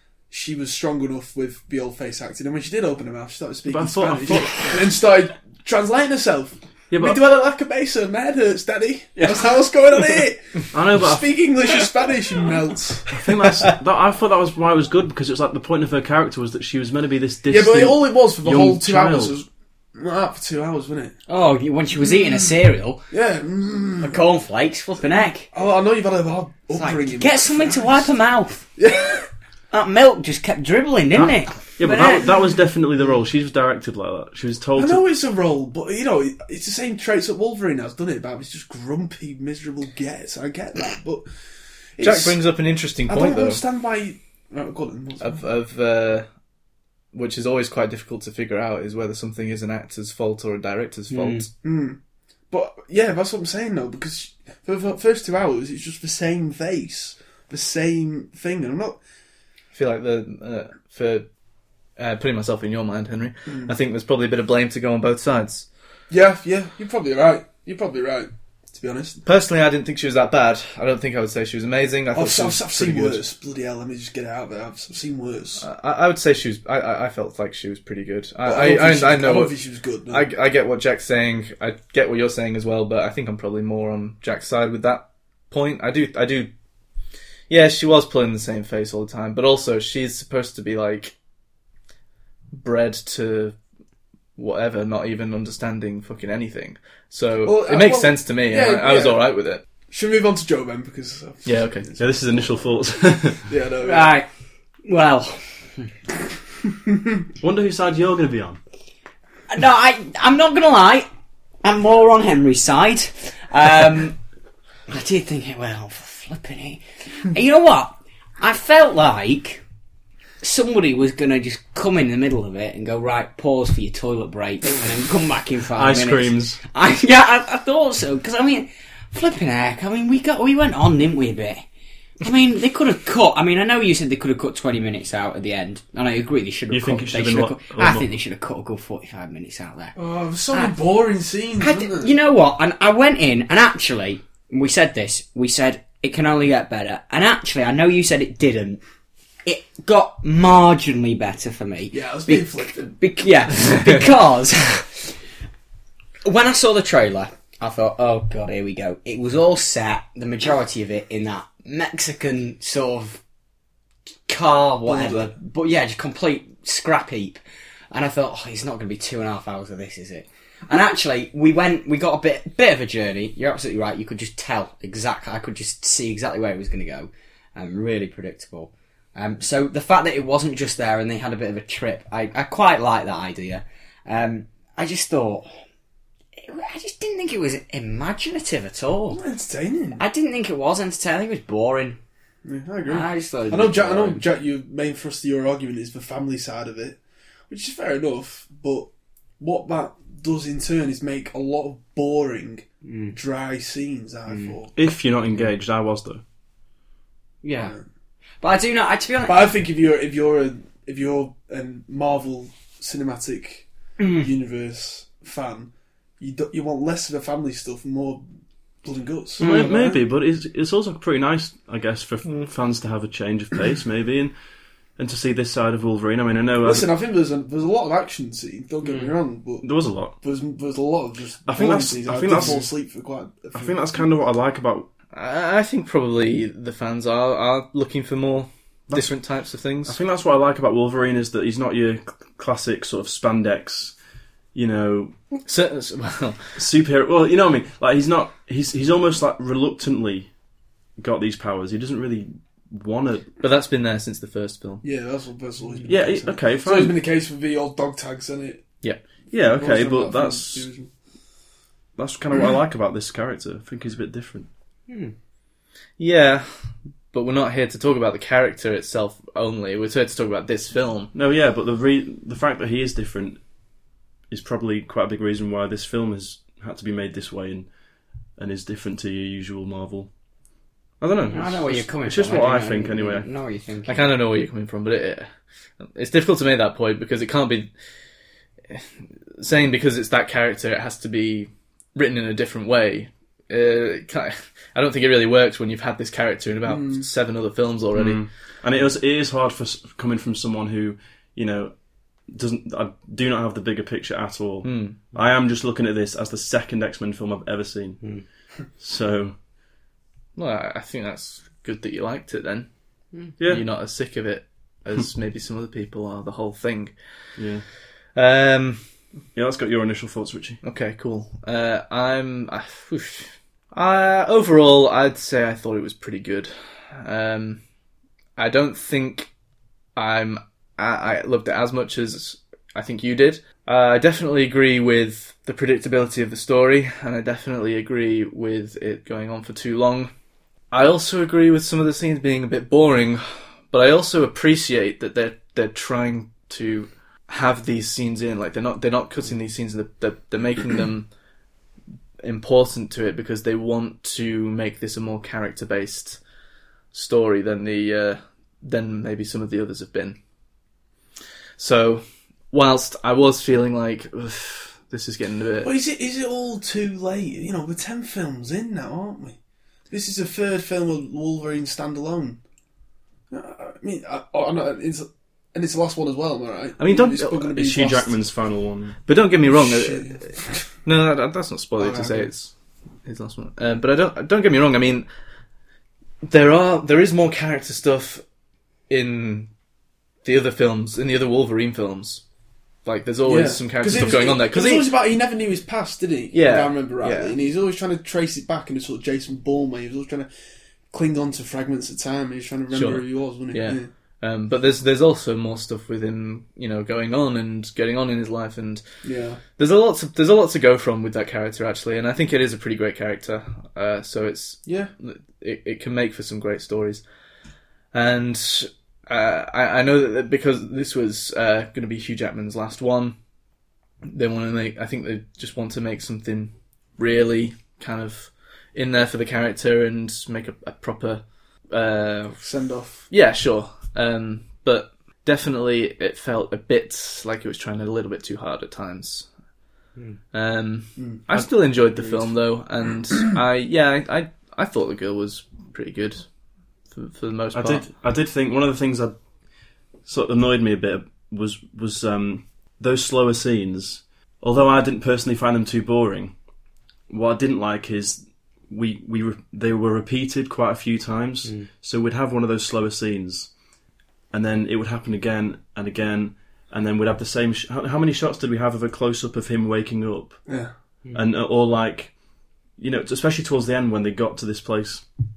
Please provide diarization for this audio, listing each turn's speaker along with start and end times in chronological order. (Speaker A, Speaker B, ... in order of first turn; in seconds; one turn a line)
Speaker A: 0.3-13.2
Speaker B: 3.7-4.7
Speaker B: 6.9-7.2
Speaker B: 10.7-11.3
Speaker B: 13.1-19.4
Speaker A: 17.5-21.1
Speaker C: 21.3-23.0
Speaker A: 23.1-24.2
Speaker C: 24.0-25.5
Speaker A: 25.5-28.0
Speaker C: 26.7-28.7
Speaker A: 28.8-29.3
Speaker C: 29.7-32.3
Speaker B: 31.1-35.0
Speaker A: 34.8-41.3
Speaker A: 42.0-42.4
Speaker D: 42.0-43.6
Speaker A: 43.1-45.4
Speaker D: 45.2-46.3
Speaker D: 47.1-51.5
Speaker C: 51.1-51.5
Speaker A: 51.6-52.0
Speaker A: 52.5-59.0
Speaker D: 59.7-61.3
Speaker D: 62.0-65.7
Speaker A: 63.5-63.8
Speaker A: 66.1-69.2
Speaker D: 69.2-73.2
Speaker A: 72.1-75.6
Speaker D: 75.6-79.5
Speaker A: 78.5-80.2
Speaker D: 80.1-86.5
Speaker D: 87.5-91.1
Speaker D: 92.5-93.6
Speaker D: 94.4-99.6
Speaker A: 97.4-99.3
Speaker A: 99.9-102.1
Speaker D: 101.5-101.9
Speaker B: 102.0-103.5
Speaker A: 103.5-104.2
Speaker C: 103.8-104.3
Speaker C: 104.8-105.6
Speaker B: 107.4-108.6
Speaker C: 109.5-111.1
Speaker C: 111.6-114.2
Speaker C: 114.9-119.6
Speaker C: 120.4-131.7
Speaker B: 125.8-126.6
Speaker C: 132.2-139.9
Speaker B: 136.7-138.1
Speaker A: 140.0-142.1
Speaker C: 140.5-140.8
Speaker C: 141.6-148.8
Speaker C: 149.4-155.2
Speaker A: 151.9-153.0
Speaker C: 156.2-163.2
Speaker C: 164.3-167.4
Speaker A: 164.9-165.3
Speaker C: 167.9-185.5
Speaker C: 186.4-189.2
Speaker A: 189.1-190.0
Speaker C: 190.0-192.0
Speaker A: 192.4-197.0
Speaker C: 192.9-194.2
Speaker A: 197.5-198.9
Speaker A: 199.4-204.7
Speaker C: 202.8-203.2
Speaker C: 204.3-204.5
Speaker B: 204.8-206.2
Speaker C: 207.4-207.8
Speaker C: 208.4-209.6
Speaker A: 209.3-218.2
Speaker C: 214.0-214.3
Speaker A: 218.8-220.0
Speaker C: 219.4-219.8
Speaker B: 219.4-224.3
Speaker B: 225.0-226.9
Speaker A: 226.6-233.8
Speaker B: 229.6-230.2
Speaker B: 231.5-232.7
Speaker B: 233.5-234.9
Speaker D: 235.1-240.0
Speaker B: 238.9-239.1
Speaker B: 239.8-243.9
Speaker B: 244.5-245.2
Speaker D: 245.4-246.6
Speaker B: 246.6-250.3
Speaker B: 251.0-253.3
Speaker D: 253.4-254.8
Speaker A: 254.8-258.7
Speaker B: 255.9-257.0
Speaker B: 259.3-260.7
Speaker A: 259.5-260.9
Speaker B: 262.0-264.5
Speaker C: 264.9-265.1
Speaker D: 266.0-266.6
Speaker D: 267.1-271.1
Speaker B: 271.1-273.4
Speaker B: 274.3-277.7
Speaker B: 278.4-280.1
Speaker B: 281.0-283.3
Speaker C: 281.3-284.0
Speaker D: 283.9-285.3
Speaker D: 285.9-287.7
Speaker D: 289.4-298.2
Speaker A: 296.7-297.1
Speaker B: 297.9-308.2
Speaker D: 304.6-305.0
Speaker B: 308.8-309.4
Speaker D: 310.4-312.7
Speaker B: 313.4-313.6
Speaker D: 313.4-316.9
Speaker B: 317.4-317.6
Speaker D: 318.1-318.8
Speaker B: 319.4-320.6
Speaker D: 320.6-327.6
Speaker D: 328.4-329.3
Speaker D: 330.0-340.1
Speaker D: 340.7-351.1
Speaker D: 352.2-356.2
Speaker D: 356.9-360.2
Speaker D: 361.6-365.7
Speaker A: 365.6-369.4
Speaker A: 369.9-372.4
Speaker A: 373.3-378.2
Speaker D: 376.8-377.5
Speaker B: 377.5-379.0
Speaker D: 379.1-382.5
Speaker A: 379.5-380.6
Speaker A: 381.8-382.3
Speaker D: 383.1-385.1
Speaker D: 386.2-388.2
Speaker D: 388.9-389.5
Speaker D: 390.2-392.2
Speaker D: 392.9-394.9
Speaker A: 393.2-400.3
Speaker D: 396.3-397.4
Speaker A: 400.9-403.9
Speaker D: 402.7-408.8
Speaker A: 409.0-409.4
Speaker D: 409.6-417.0
Speaker A: 414.7-414.9
Speaker D: 417.9-423.2
Speaker D: 424.1-432.4
Speaker A: 432.4-433.1
Speaker D: 433.1-439.3
Speaker D: 440.3-446.3
Speaker A: 441.0-442.4
Speaker D: 446.9-447.8
Speaker B: 447.5-449.2
Speaker B: 450.0-456.4
Speaker B: 457.1-463.5
Speaker B: 464.3-470.4
Speaker A: 470.5-470.7
Speaker B: 471.1-475.1